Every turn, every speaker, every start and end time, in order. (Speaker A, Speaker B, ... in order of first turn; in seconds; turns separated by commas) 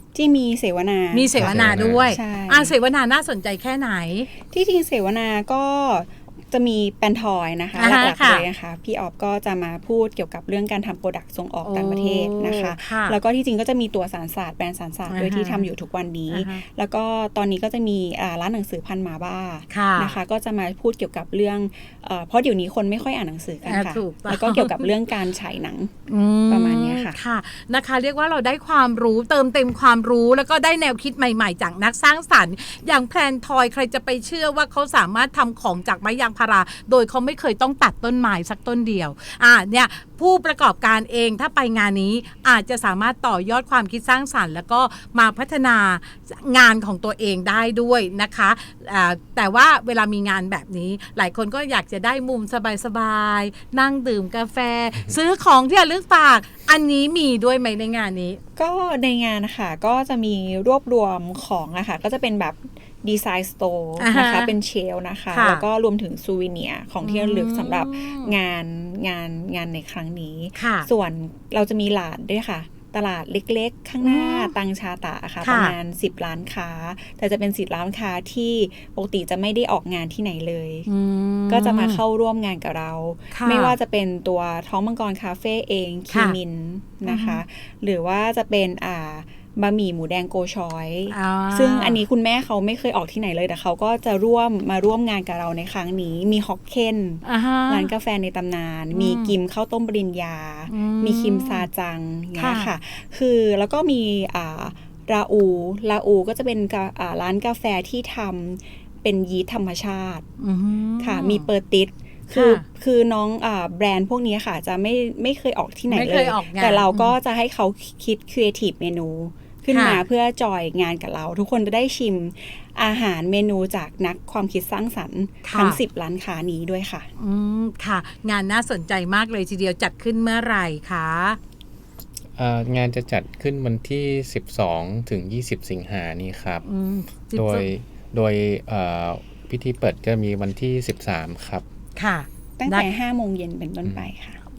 Speaker A: 0.1-2.7, Speaker B: 1.1-4.3, Speaker C: 1.4-2.0, Speaker A: 4.4-27.2, Speaker B: 7.8-8.4, Speaker B: 11.6-13.2, Speaker B: 15.1-15.7, Speaker B: 16.3-16.6, Speaker B: 19.7-20.2, Speaker B: 23.6-24.9, Speaker B: 26.1-58.4, Speaker A: 58.5-80.9, Speaker B: 64.0-64.5, Speaker B: 65.3-65.6, Speaker B: 67.0-68.3, Speaker B: 70.5-70.9, Speaker B: 74.0-74.5, Speaker B: 75.4-75.7, Speaker B: 80.9-82.0, Speaker A: 81.5-110.3, Speaker B: 83.3-83.7, Speaker B: 86.1-86.4, Speaker B: 87.0-87.4, Speaker B: 91.1-92.0, Speaker B: 97.2-97.9, Speaker B: 98.9-99.3, Speaker B: 100.7-101.7, Speaker B: 102.3-102.7, Speaker B: 110.4-111.5, Speaker A: 111.0-127.1, Speaker B: 112.3-112.6, Speaker B: 115.9-117.2, Speaker B: 119.7-120.0, Speaker B: 125.4-125.8, Speaker B: 127.2-131.4, Speaker C: 132.4-136.6, Speaker B: 136.6-137.7, Speaker C: 137.3-141.6, Speaker B: 141.9-142.8, Speaker A: 142.6-144.4